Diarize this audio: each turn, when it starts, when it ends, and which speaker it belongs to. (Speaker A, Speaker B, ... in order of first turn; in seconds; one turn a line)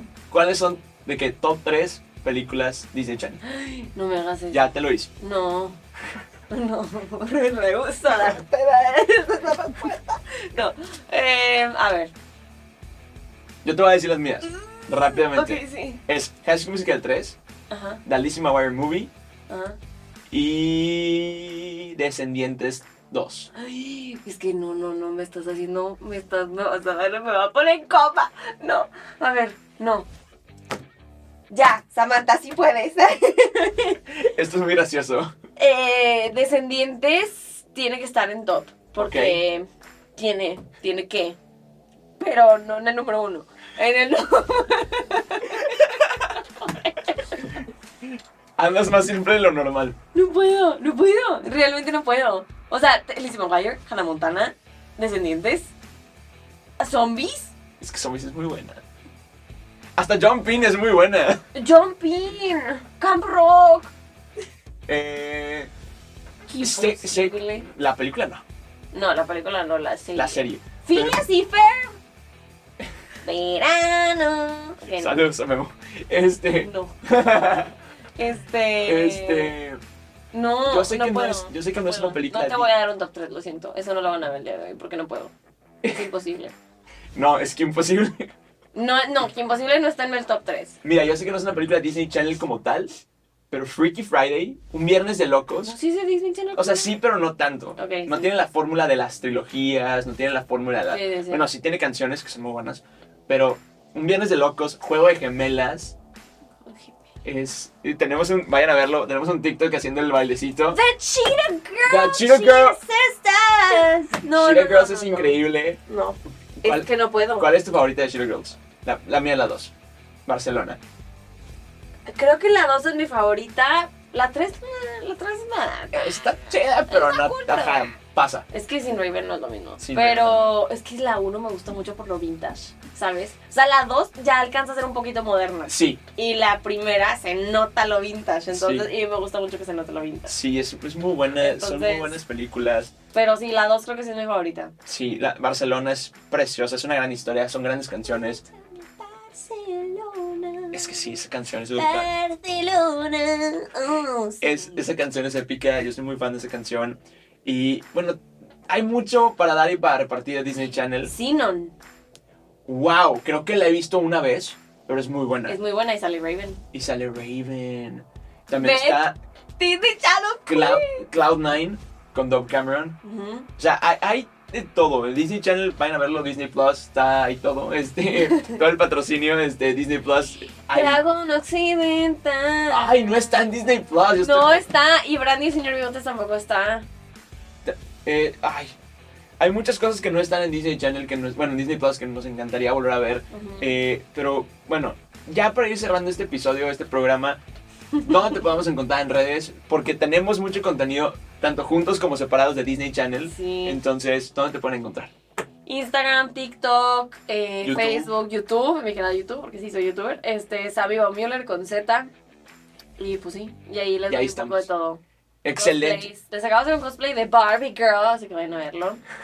Speaker A: 0.3-3.4
Speaker B: 3.4-4.6
Speaker A: 4.5-5.1
Speaker B: 5.2-5.8
Speaker B: 6.5-12.1
Speaker A: 13.6-17.4
Speaker B: 14.4-16.0
Speaker B: 17.7-18.0
Speaker A: 18.0-19.1
Speaker B: 19.5-19.8
Speaker A: 20.3-23.5
Speaker B: 23.5-30.1
Speaker B: 31.5-34.0
Speaker A: 34.1-35.3
Speaker B: 35.6-41.4
Speaker A: 39.0-39.4
Speaker B: 42.2-47.6
Speaker A: 48.6-50.0
Speaker B: 50.1-55.7
Speaker B: 56.8-57.5
Speaker A: 57.8-58.8
Speaker A: 60.0-61.5
Speaker B: 61.5-63.9
Speaker A: 64.9-65.7
Speaker B: 66.5-67.7
Speaker A: 66.6-68.4
Speaker B: 68.9-72.0
Speaker A: 70.2-71.2
Speaker B: 73.2-75.2
Speaker A: 74.9-77.7
Speaker B: 76.6-76.9
Speaker B: 78.2-79.5
Speaker A: 78.8-79.8
Speaker B: 80.3-85.3
Speaker A: 80.7-82.7
Speaker B: 85.9-86.5
Speaker A: 87.1-88.3
Speaker B: 88.7-90.8
Speaker A: 90.8-92.9
Speaker A: 93.5-95.7
Speaker B: 95.6-97.0
Speaker A: 96.5-105.9
Speaker B: 97.8-98.3
Speaker B: 100.9-101.5
Speaker B: 106.6-107.0
Speaker A: 107.2-110.8
Speaker B: 110.7-117.5
Speaker A: 111.8-112.8
Speaker A: 114.3-115.8
Speaker A: 116.6-119.7
Speaker A: 120.2-120.8
Speaker B: 122.0-126.3
Speaker A: 125.9-128.4
Speaker B: 126.9-127.9
Speaker B: 128.5-140.3
Speaker A: 129.8-130.5
Speaker A: 135.7-136.0
Speaker A: 138.5-138.9
Speaker A: 140.3-142.9
Speaker B: 141.4-142.2
Speaker B: 143.1-144.7
Speaker A: 144.8-148.4
Speaker B: 148.1-151.0
Speaker A: 150.7-152.1
Speaker B: 151.8-154.9
Speaker A: 154.4-161.1
Speaker B: 161.1-161.7
Speaker A: 162.7-165.6
Speaker B: 165.5-166.6
Speaker A: 166.7-169.2
Speaker B: 168.5-169.0
Speaker B: 169.6-171.0
Speaker A: 170.4-173.0
Speaker B: 173.0-173.5
Speaker A: 173.6-181.0
Speaker B: 178.2-178.6
Speaker B: 180.7-183.4
Speaker A: 182.7-184.6
Speaker B: 184.2-186.9
Speaker A: 187.7-188.7
Speaker A: 189.4-197.4
Speaker B: 193.3-193.7
Speaker B: 197.9-198.4
Speaker A: 198.0-205.1
Speaker B: 203.3-203.8
Speaker B: 205.7-212.1
Speaker A: 207.6-208.1
Speaker B: 213.0-215.0
Speaker A: 214.1-214.7
Speaker A: 215.4-216.1
Speaker B: 215.6-219.0